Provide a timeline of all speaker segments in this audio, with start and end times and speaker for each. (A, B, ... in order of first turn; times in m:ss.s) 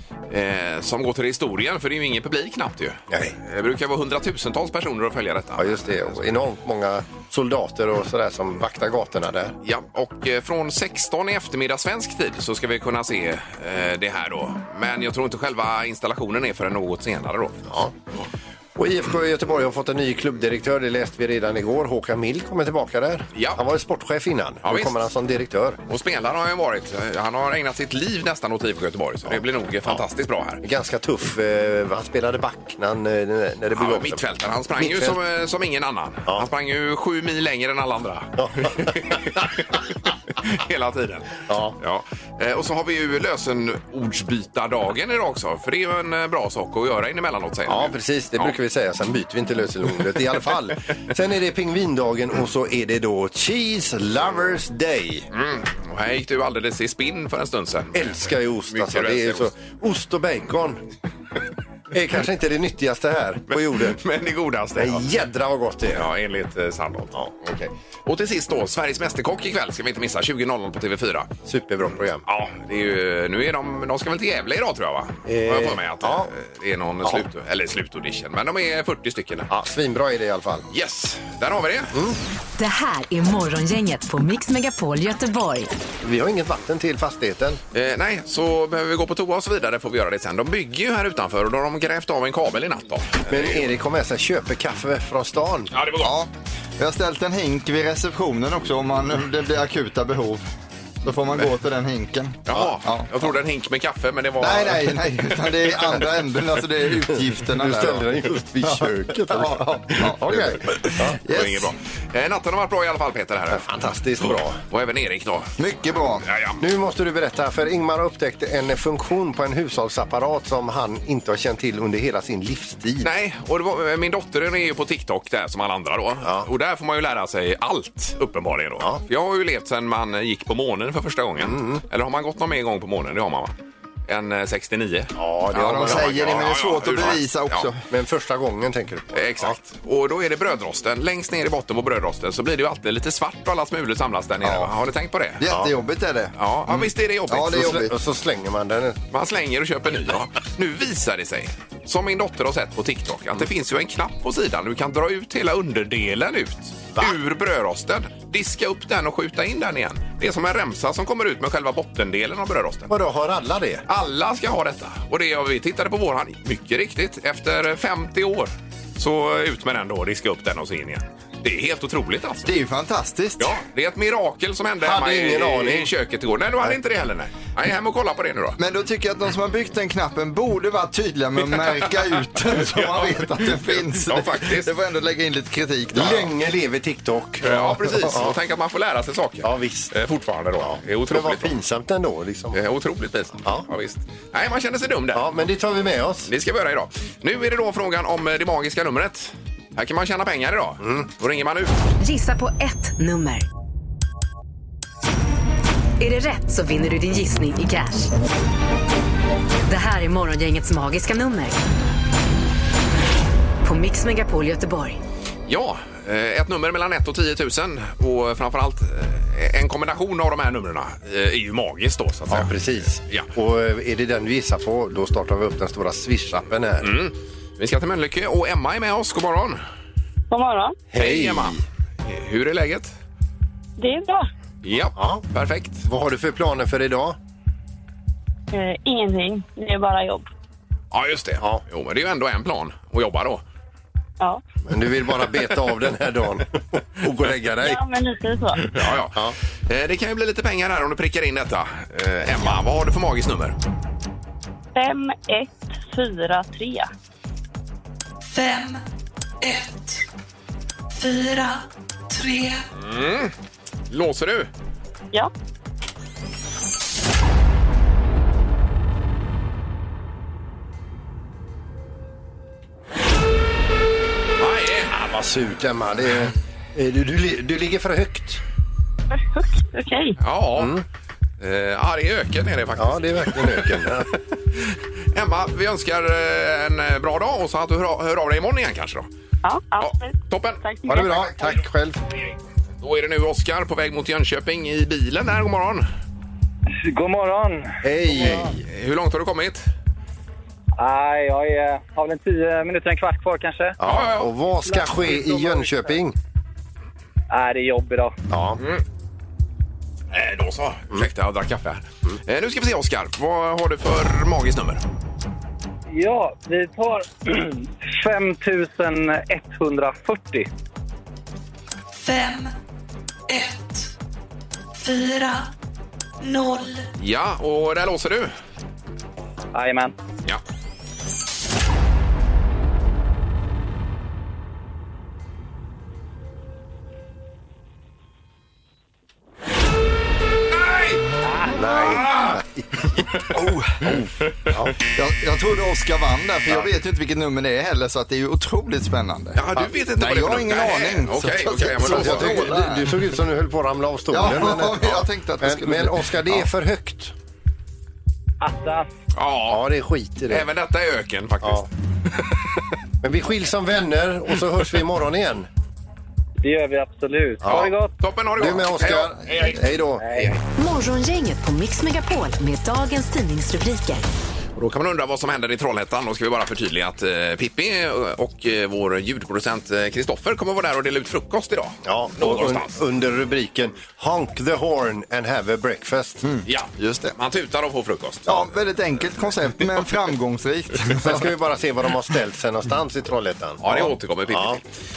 0:00.3-0:06.3 A
0:03.1-0:03.4 B
0:05.6-0:09.6 B
0:09.6-0:17.7 A
0:17.7-0:17.9 B
0:18.8-0:25.8 B
0:23.3-0:23.6 A
0:24.6-0:25.0 A
0:25.9-0:30.6 A
0:29.3-0:30.0 B
0:30.6-0:34.2 B
0:33.7-0:48.5 A
0:34.8-0:35.2 B
0:38.4-0:39.5 B
0:41.5-0:41.8 B
0:47.6-0:55.3 B
0:55.3-0:59.5 A
0:57.9-1:00.8 B
1:01.9-1:04.0 B
1:03.6-1:05.0 A
1:04.8-1:06.1 B
1:05.9-1:11.3 A
1:11.4-1:12.2 B
1:12.2-1:19.5 A
1:15.2-1:16.3 B
1:19.5-1:20.6 B
1:20.7-1:21.9 A
1:21.9-1:22.2 B
1:22.6-1:25.7 C
1:26.0-1:27.6 B
1:27.7-1:33.6 A
1:33.3-1:35.7 B
1:35.7-1:36.1 A
1:36.0-1:40.4 D
1:41.0-1:43.1 D
1:42.5-1:45.0 A
1:44.4-1:48.0 D
1:47.5-1:51.2 B
1:48.6-1:51.7 D
1:51.3-1:53.6 A
1:53.5-1:54.6 B
1:54.2-1:55.6 A
1:55.6-1:56.2 D
1:56.2-1:56.6 A
1:56.6-2:03.1 B
2:03.0-2:13.5 A
2:06.2-2:06.5 B
2:11.4-2:11.8 B
2:14.1-2:17.7 A
2:15.1-2:16.4 B
2:15.6-2:17.8 D
2:17.9-2:19.6 B
2:19.1-2:25.4 A
2:24.4-2:24.7 D
2:25.4-2:26.3 D
2:26.4-2:27.8 A
2:27.3-2:27.9 D
2:27.5-2:29.0 B
2:29.1-2:42.9 A
2:42.9-2:43.8 B
2:43.9-2:52.5 A
2:52.4-2:53.5 D
2:53.4-2:58.6 A
2:54.8-2:55.9 B
2:58.6-3:06.3 D
3:02.5-3:04.7 A
3:05.9-3:08.4 B
3:07.4-3:11.5 A
3:09.4-3:09.9 B
3:10.6-3:12.6 B
3:12.5-3:15.2 A
3:15.1-3:16.3 B
3:16.3-3:21.7 A
3:20.8-3:21.1 B
3:22.0-3:23.4 C
3:26.0-3:28.1 C
3:29.6-3:31.6 C
3:33.6-3:35.0 C
3:35.5-3:43.3 A
3:42.3-3:46.9 B
3:46.8-3:49.6 A
3:50.3-3:50.8 E
3:50.9-3:51.6 B
3:50.9-3:52.9 A
3:53.8-3:54.3 E
3:54.6-3:55.8 A
3:54.9-3:55.2 B
3:55.8-3:57.2 B
3:58.5-4:00.3 E
4:00.9-4:03.4 A
4:04.6-4:07.8 B
4:07.6-4:08.6 E
4:08.7-4:13.6 A
4:14.7-4:16.9 E
4:18.3-4:18.8 F
4:19.4-4:20.0 F
4:20.9-4:22.6 F
4:22.8-4:23.3 A
4:23.9-4:24.5 A
4:34.4-4:34.9 A
4:34.9-4:38.4 B
4:39.1-4:40.2 E
4:40.2-4:40.8 A
4:40.6-4:40.8 B
4:41.4-4:49.1 A
4:42.8-4:44.1 B
4:49.4-4:51.5 E
4:49.8-4:50.6 A
4:50.8-4:52.0 B
4:52.8-4:55.8 A
4:56.7-4:58.4 G
4:57.8-4:58.6 B
4:58.6-4:59.6 A
5:00.8-5:03.8 G
5:03.8-5:06.2 B
5:03.8-5:04.3 A
5:04.6-5:05.9 G
5:07.3-5:08.2 G
5:08.3-5:08.6 B
5:10.1-5:14.8 A
5:15.9-5:20.5 G
5:21.9-5:22.5 F
5:23.3-5:23.9 F
5:24.8-5:25.5 F
5:26.2-5:26.9 F
5:27.0-5:28.3 A
5:29.5-5:29.9 G
5:40.5-5:41.0 A
5:41.2-5:41.5 G
5:41.5-5:42.9 B
5:41.6-5:42.4 A
5:43.3-5:43.8 D
5:43.9-5:44.7 B
5:44.9-5:52.9 D
5:49.3-5:52.5 A
5:51.8-5:57.1 B
5:54.1-5:56.4 D
5:58.4-5:58.9 G
5:59.1-5:59.6 A
5:59.5-6:00.5 B
6:00.3-6:02.3 A
6:03.0-6:05.5 B
6:06.4-6:07.9 G
6:07.4-6:07.7 B
6:07.4-6:09.6 A
6:08.4-6:10.3 B
6:10.0-6:10.4 G
6:10.6-6:14.0 C
6:14.6-6:22.8 A
6:21.8-6:26.2 B
6:26.2-6:27.1 D
6:26.4-6:28.5 A
6:28.3-6:31.2 D
6:31.0-6:34.6 B
6:33.6-6:34.6 A